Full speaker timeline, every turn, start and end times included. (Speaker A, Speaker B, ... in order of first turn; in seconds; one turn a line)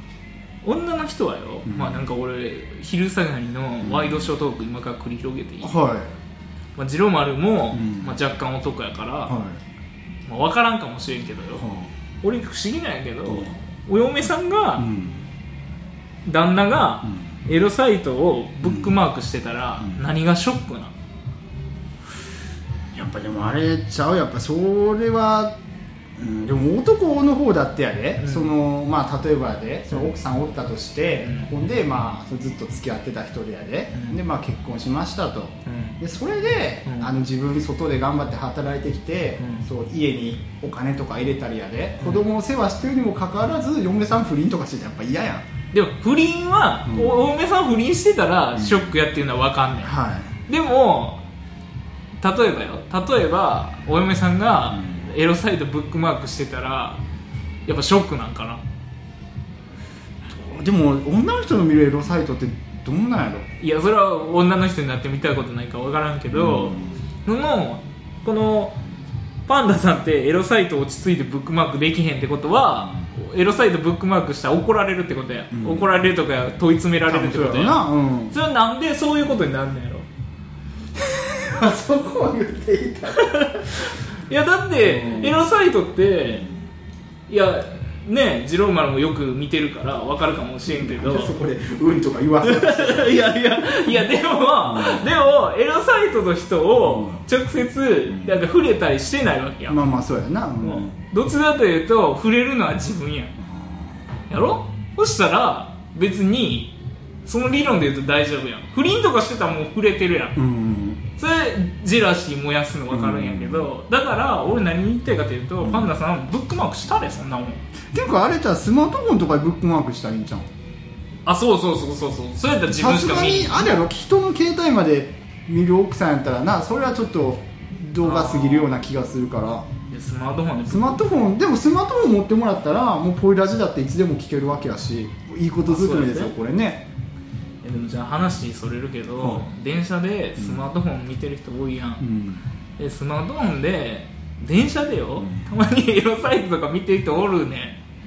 Speaker A: 0.6-5.8
Speaker B: 1.7-2.1
Speaker B: 3.8-4.3
Speaker B: 5.6-6.1
Speaker A: 6.8-9.4
Speaker B: 7.7-8.2
Speaker B: 9.3-9.6
Speaker A: 10.3-11.7
Speaker B: 11.6-11.9
Speaker A: 12.2-14.9
Speaker B: 13.3-13.6
Speaker B: 14.8-15.3
Speaker A: 16.3-20.9
Speaker B: 18.6-19.0
Speaker B: 22.9-25.6
Speaker B: 26.2-45.5
Speaker A: 28.2-28.5
Speaker A: 31.2-31.5
Speaker A: 33.9-34.2
Speaker A: 35.7-36.0
Speaker A: 36.9-37.1
Speaker A: 39.4-39.7
Speaker A: 42.0-42.3
Speaker A: 45.7-50.0
Speaker B: 46.9-47.2
Speaker B: 48.6-48.9
Speaker B: 49.8-50.3
Speaker A: 50.5-51.2
Speaker A: 52.2-57.0
Speaker B: 54.8-55.1
Speaker A: 57.7-58.6
Speaker B: 60.3-63.5
Speaker A: 63.6-68.8
Speaker B: 66.3-66.9
Speaker A: 69.5-77.8
Speaker B: 75.5-76.0
Speaker B: 77.0-78.4
Speaker A: 78.3-80.1
Speaker B: 81.0-83.4
Speaker A: 83.1-86.5
Speaker B: 84.8-85.4
Speaker A: 87.3-91.3
Speaker B: 90.7-95.1
Speaker A: 92.4-99.8
Speaker B: 96.8-97.2
Speaker B: 98.1-98.4
Speaker B: 99.7-101.0
Speaker A: 100.6-103.3
Speaker B: 103.5-103.8
Speaker A: 104.3-106.7
Speaker A: 107.2-110.4
Speaker B: 110.4-111.0
Speaker A: 111.2-117.6
Speaker B: 112.9-113.7
Speaker B: 115.6-116.0
Speaker B: 117.9-120.5
Speaker A: 121.3-123.8
Speaker B: 122.7-129.7
Speaker A: 128.0-128.7
Speaker A: 129.9-131.1
Speaker B: 130.7-136.9
Speaker A: 135.7-136.3
Speaker A: 137.6-142.1
Speaker B: 139.2-139.4
Speaker B: 140.4-140.6
Speaker B: 142.0-142.4
Speaker A: 142.8-147.8
Speaker B: 145.2-145.5